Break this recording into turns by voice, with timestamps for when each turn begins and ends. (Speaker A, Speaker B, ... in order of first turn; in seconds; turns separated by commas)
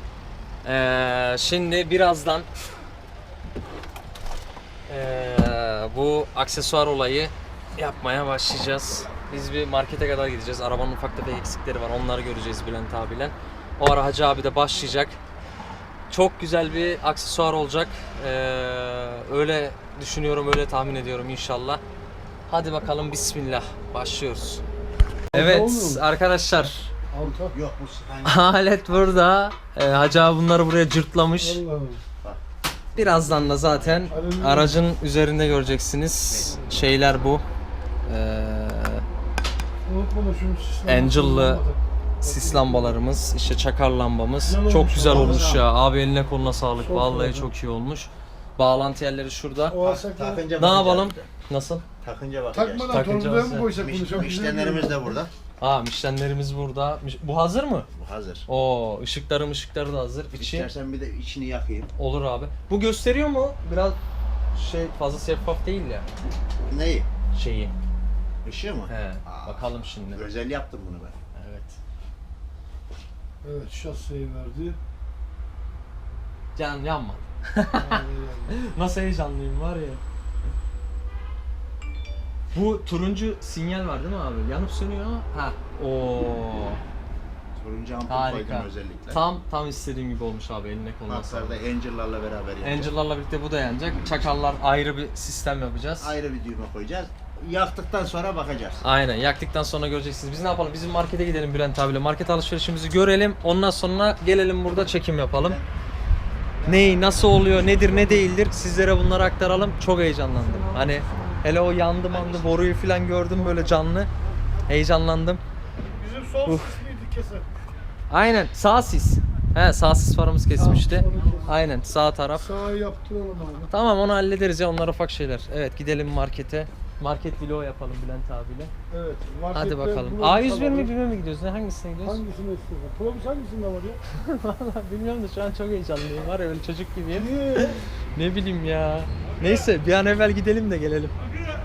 Speaker A: 0.6-2.5, Speaker A: 4.9-15.2, Speaker A: 16.1-21.8, Speaker A: 22.5-24.6, Speaker A: 25.3-26.9, Speaker B: 25.3-26.0, Speaker C: 27.2-29.1, Speaker A: 28.2-31.6, Speaker B: 31.6-32.0, Speaker A: 32.9-37.4, Speaker C: 33.5-34.1, Speaker B: 34.1-34.7, Speaker C: 36.3-36.7, Speaker A: 38.0-39.0, Speaker B: 39.9-41.6, Speaker A: 40.8-41.6, Speaker A: 42.2-49.8, Speaker B: 44.5-45.5, Speaker C: 44.9-45.6, Speaker B: 46.9-47.4, Speaker C: 49.8-51.3, Speaker B: 49.9-50.3, Speaker A: 50.6-51.8, Speaker C: 52.0-53.0, Speaker B: 52.8-54.6, Speaker A: 52.9-53.7, Speaker C: 53.7-55.3, Speaker A: 55.6-57.9, Speaker C: 57.9-58.5, Speaker A: 58.5-60.7, Speaker C: 60.4-61.9, Speaker A: 62.0-64.0, Speaker A: 64.5-66.0, Speaker C: 66.7-67.1, Speaker A: 67.3-67.7, Speaker C: 68.4-71.2, Speaker A: 68.9-70.3, Speaker A: 71.3-71.8, Speaker B: 73.4-74.8, Speaker A: 76.5-80.0, Speaker B: 77.9-78.5, Speaker A: 82.5-86.8, Speaker C: 87.5-89.2, Speaker A: 88.1-91.6, Speaker C: 91.1-92.9, Speaker A: 92.6-96.2, Speaker C: 96.0-98.8, Speaker A: 98.8-105.6, Speaker C: 105.3-105.7, Speaker C: 106.6-108.2, Speaker A: 106.6-114.1, Speaker C: 112.1-112.7, Speaker A: 114.7-115.4, Speaker B: 116.1-117.5, Speaker A: 116.4-116.8, Speaker A: 118.1-122.6, Speaker B: 120.8-121.3, Speaker B: 122.4-123.7, Speaker A: 123.7-128.7, Speaker B: 128.9-130.9, Speaker A: 129.5-132.2, Speaker B: 132.1-134.0, Speaker A: 134.1-141.2, Speaker B: 137.2-137.6